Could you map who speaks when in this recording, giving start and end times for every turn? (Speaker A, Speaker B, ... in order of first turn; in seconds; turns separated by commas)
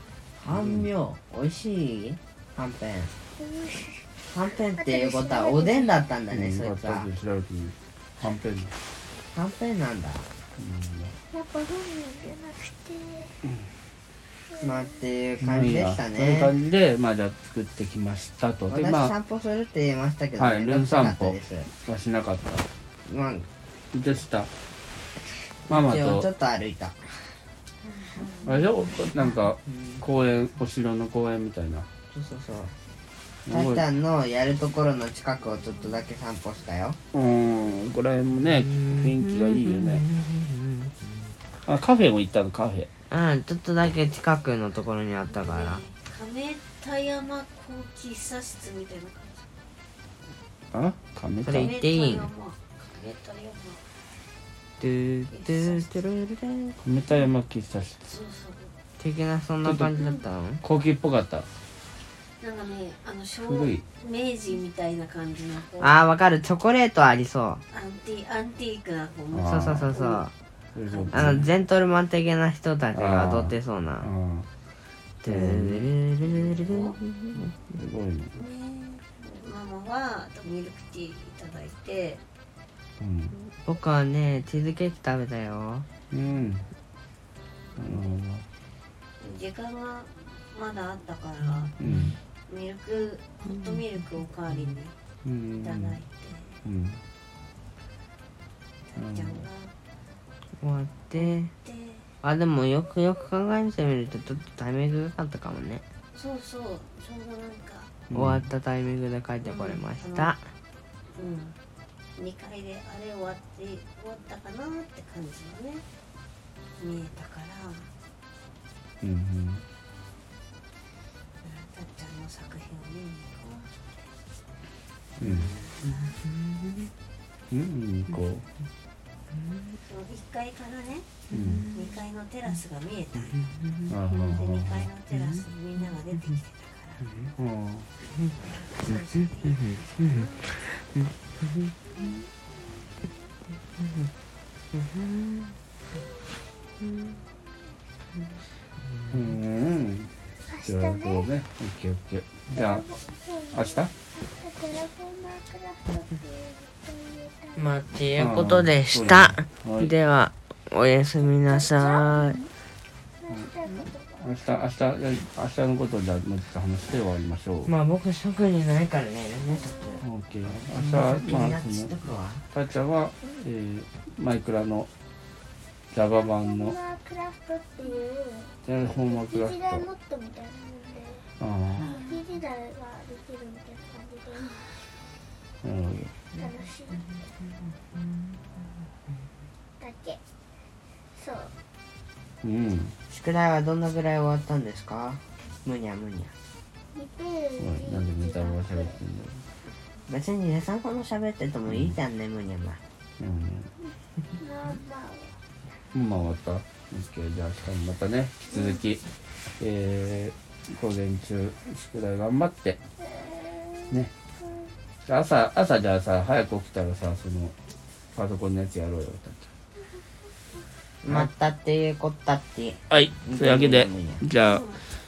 Speaker A: 0.4-3.1, Speaker B: 0.5-0.9, Speaker C: 3.4-4.1, Speaker A: 4.3-7.1, Speaker C: 4.8-6.0, Speaker B: 6.3-8.7, Speaker A: 9.3-10.2, Speaker B: 10.6-11.2, Speaker C: 11.3-13.3, Speaker B: 13.4-13.7, Speaker C: 14.5-14.9, Speaker A: 14.6-16.5, Speaker B: 15.4-19.1, Speaker A: 18.7-21.7, Speaker B: 20.4-22.6, Speaker A: 23.1-23.5, Speaker B: 23.9-24.5, Speaker A: 25.7-27.2, Speaker B: 25.7-26.3, Speaker D: 27.9-28.7, Speaker B: 28.4-31.9, Speaker A: 32.1-32.7, Speaker B: 33.5-33.8, Speaker A: 33.5-37.0, Speaker B: 37.1-40.0, Speaker A: 38.6-40.9, Speaker B: 41.6-42.9, Speaker A: 43.1-45.8, Speaker D: 45.3-49.5, Speaker B: 50.7-51.7, Speaker A: 51.4-52.3, Speaker D: 51.5-53.8, Speaker A: 54.8-56.8, Speaker D: 55.3-55.9, Speaker B: 56.8-58.1, Speaker D: 58.0-58.7, Speaker A: 59.0-60.6, Speaker B: 59.6-60.0, Speaker B: 60.6-61.5, Speaker D: 62.4-66.0, Speaker B: 63.4-63.8, Speaker A: 65.8-67.6, Speaker D: 67.7-70.3, Speaker B: 69.3-69.9, Speaker A: 69.4-70.3, Speaker B: 70.7-71.5, Speaker D: 70.9-71.4, Speaker A: 71.1-74.1, Speaker B: 72.9-74.5, Speaker A: 75.2-77.5, Speaker B: 75.2-75.9, Speaker D: 76.5-77.0, Speaker B: 77.7-78.3, Speaker D: 78.3-82.2, Speaker B: 83.0-83.3, Speaker A: 83.6-85.8, Speaker B: 86.1-86.7, Speaker B: 87.8-88.5, Speaker D: 89.2-91.7, Speaker B: 91.8-92.2, Speaker D: 92.5-94.9, Speaker B: 95.2-96.0, Speaker D: 95.6-96.5, Speaker B: 96.6-97.0, Speaker D: 98.9-99.7, Speaker B: 98.9-99.5, Speaker A: 100.6-101.5, Speaker D: 101.1-102.1, Speaker A: 102.2-105.8, Speaker D: 106.1-107.9, Speaker B: 108.1-108.4, Speaker A: 108.1-110.4, Speaker D: 109.4-110.3, Speaker D: 111.1-111.5, Speaker D: 112.1-115.8, Speaker D: 116.8-117.9, Speaker B: 119.0-119.6, Speaker D: 121.4-124.1, Speaker B: 125.2-125.5, Speaker D: 125.5-126.2, Speaker B: 127.5-128.4, Speaker D: 129.8-131.1, Speaker B: 131.3-131.7, Speaker A: 131.4-131.6, Speaker D: 131.7-133.5, Speaker B: 133.9-134.9, Speaker D: 134.3-137.1, Speaker B: 137.4-137.9, Speaker D: 138.4-140.5, Speaker A: 139.5-140.8, Speaker B: 149.1-152.8, Speaker C: 150.5-151.3, Speaker C: 152.5-157.6, Speaker B: 153.5-153.9, Speaker A: 157.6-162.4, Speaker B: 158.2-159.9, Speaker C: 161.2-162.5, Speaker C: 163.2-164.2, Speaker B: 164.1-167.7, Speaker A: 167.6-172.4, Speaker C: 169.5-170.0, Speaker B: 170.0-171.9, Speaker B: 172.5-174.9, Speaker B: 175.9-176.8, Speaker C: 176.1-181.2, Speaker B: 178.6-179.8, Speaker B: 181.4-182.0, Speaker C: 181.8-184.8, Speaker B: 185.6-186.1, Speaker C: 186.3-187.1, Speaker C: 189.8-190.2, Speaker C: 191.1-191.5, Speaker B: 192.4-192.9, Speaker A: 193.1-196.3, Speaker C: 196.9-199.0, Speaker B: 197.6-199.4, Speaker A: 200.1-202.8, Speaker B: 201.7-201.9, Speaker B: 203.2-203.7, Speaker C: 204.4-205.4, Speaker B: 205.9-209.0, Speaker B: 209.6-212.8, Speaker C: 213.2-214.0, Speaker B: 215.0-217.5, Speaker B: 218.1-219.5, Speaker A: 221.0-224.2, Speaker B: 222.9-224.7, Speaker D: 224.4-224.8